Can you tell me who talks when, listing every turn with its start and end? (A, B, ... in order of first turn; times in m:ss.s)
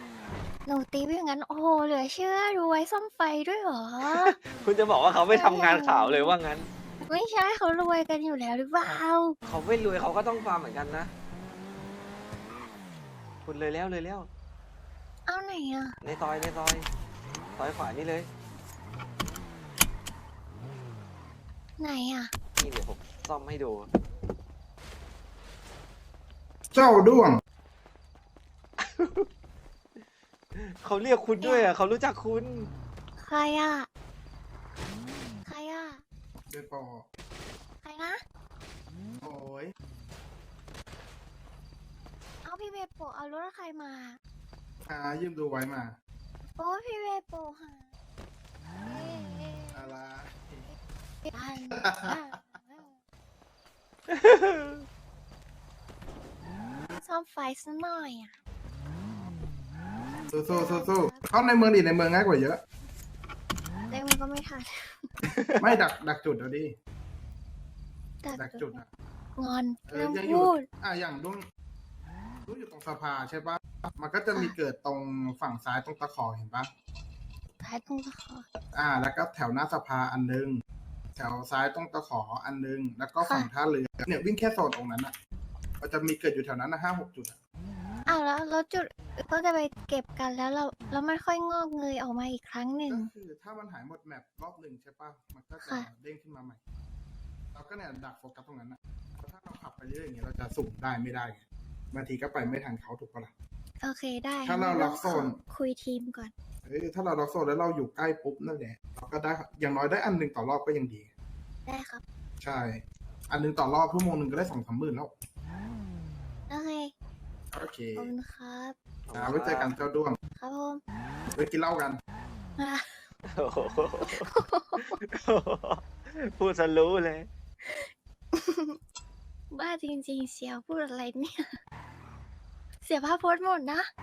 0:00.6-0:04.3 A
0:04.0-0:06.7 B
0:05.3-0:06.3 A
0:07.0-0:09.4 A
0:08.9-0:11.1 B
0:13.4-0:14.3 B
0:15.3-0:16.0 A
0:16.0-0:16.9 B
0:17.6-0:18.3 B
0:21.8-0:22.3 A
0:22.6-0:23.9 B
0:26.7-0:27.4 C
0:28.8-0:29.3 B
0:30.5-0:32.7 B
0:31.4-0:31.7 A
0:33.2-0:33.9 A
0:35.4-0:36.0 A
0:36.5-0:37.0 C
0:37.8-0:38.2 A
0:39.2-0:39.7 C
0:42.4-0:44.2 A
0:44.8-0:46.0 C
0:46.6-0:47.9 A
0:48.8-0:49.9 A
0:49.7-0:50.7 C
0:51.3-0:53.0 A
0:51.7-0:52.2 C
0:54.1-0:54.8 B
0:57.0-0:58.4 A
1:00.3-1:02.6 C
1:00.5-1:01.3 A
1:03.9-1:05.1 A
1:05.3-1:05.6 B
1:05.6-1:06.7 C
1:08.2-1:08.8 A
1:08.3-1:08.9 C
1:09.4-1:10.6 A
1:09.9-1:11.4 C
1:12.4-1:16.7 C
1:14.3-1:14.6 A
1:17.6-1:18.4 A
1:18.7-1:20.6 C
1:21.2-1:25.1 C
1:23.2-1:23.5 A
1:25.8-1:27.4 C
1:28.1-1:33.1 A
1:32.9-1:36.6 C
1:35.6-1:35.9 A
1:37.5-1:43.3 C
1:43.8-1:46.3 A
1:44.4-1:45.4 C
1:46.6-1:51.1 C
1:51.6-1:52.0 A
1:52.4-1:55.1 C
1:56.5-1:56.9 A
1:57.5-1:58.1 C
1:58.0-1:58.7 A
1:59.1-1:59.7 B
1:59.1-2:00.2 C
2:00.4-2:00.8 A
2:01.3-2:02.0 C
2:02.6-2:03.0 A
2:03.3-2:07.3 B
2:04.1-2:05.0 A
2:07.6-2:08.8 A
2:09.5-2:11.5 A
2:12.8-2:13.9 A